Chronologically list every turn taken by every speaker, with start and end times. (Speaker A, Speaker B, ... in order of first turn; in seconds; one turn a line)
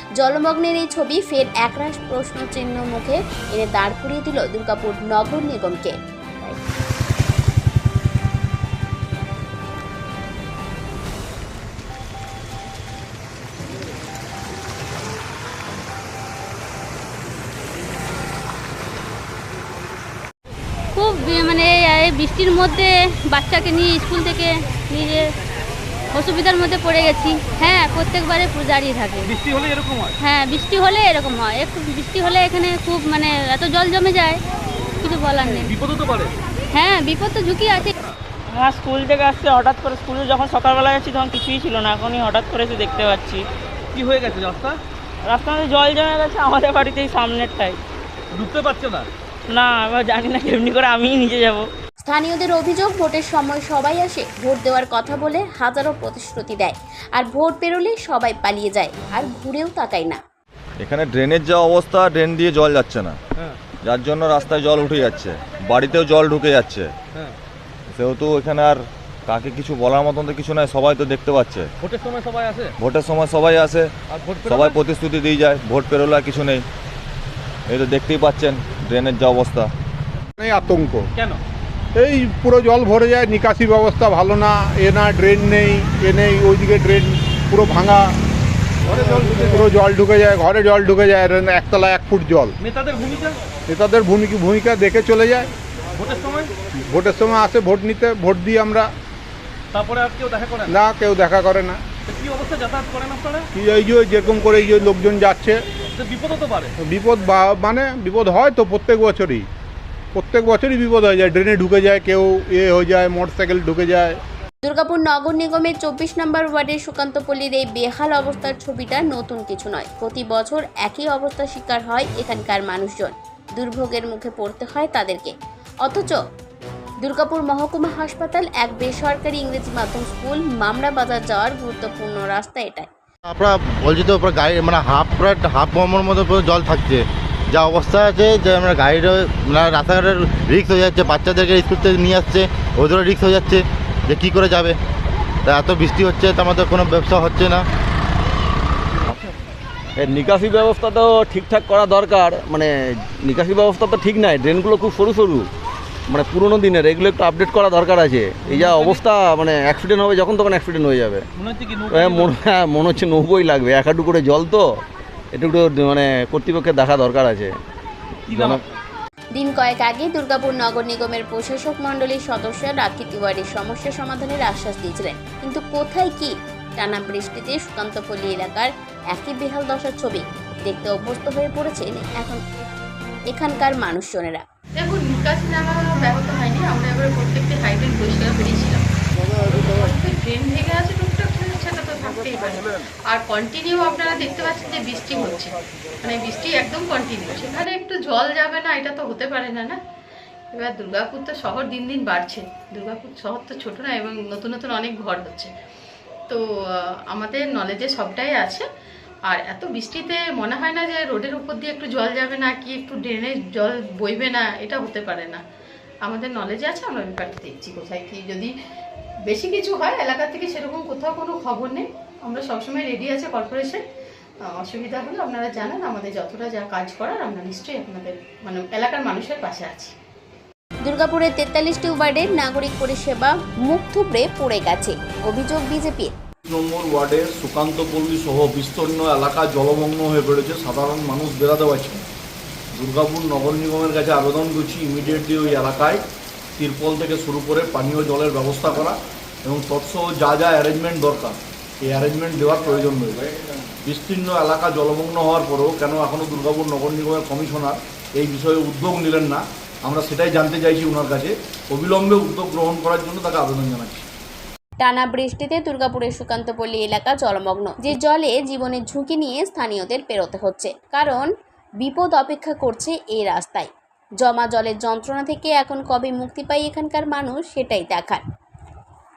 Speaker A: 0.2-6.6
Speaker B: 20.9-25.2
Speaker B: 26.1-29.3
Speaker C: 29.2-30.1
Speaker B: 30.2-34.4
Speaker B: 35.0-35.7
Speaker C: 35.7-36.3
Speaker B: 36.7-37.9
Speaker D: 38.5-43.5
Speaker C: 43.9-44.8
Speaker D: 45.2-47.8
Speaker C: 48.3-49.1
Speaker D: 49.5-51.7
Speaker A: 52.0-60.2
Speaker E: 60.8-63.2
Speaker E: 63.8-66.9
Speaker E: 67.9-71.7
Speaker C: 71.8-72.7
Speaker E: 72.8-73.9
Speaker C: 74.1-74.8
Speaker E: 74.4-76.7
Speaker E: 77.7-79.7
Speaker F: 80.4-81.1
Speaker F: 81.9-88.2
Speaker C: 88.9-89.4
Speaker F: 88.9-92.5
Speaker C: 92.6-93.4
Speaker F: 93.7-95.5
Speaker C: 96.0-96.5
Speaker F: 96.7-98.9
Speaker C: 99.7-100.7
Speaker F: 100.7-101.8
Speaker C: 102.1-103.5
Speaker F: 103.5-105.6
Speaker C: 105.9-106.7
Speaker F: 106.8-109.5
Speaker F: 110.1-114.2
Speaker A: 114.6-125.3
Speaker A: 125.8-126.2
Speaker A: 127.0-132.9
Speaker G: 133.3-144.8
Speaker G: 145.4-147.6
Speaker H: 149.9-155.5
Speaker H: 156.1-161.2
Speaker C: 158.5-159.1
Speaker C: 161.3-162.3
Speaker H: 161.9-164.8
Speaker H: 165.3-167.5
Speaker C: 168.3-168.6
Speaker H: 168.3-168.6
Speaker A: 169.3-182.4
Speaker A: 183.3-184.4
Speaker I: 184.8-188.8
Speaker I: 189.5-199.8
Speaker I: 200.5-205.5
Speaker I: 207.1-208.6
Speaker I: 209.3-215.4
Speaker I: 216.0-218.5
Speaker I: 219.3-223.8
Speaker I: 224.6-229.9
Speaker A: 230.8-236.1
Speaker J: 236.5-242.1
Speaker J: 242.7-246.0
Speaker J: 246.6-253.3
Speaker J: 253.8-264.1
Speaker A: 264.8-271.3
Speaker A: 271.8-273.7
Speaker A: 274.2-278.2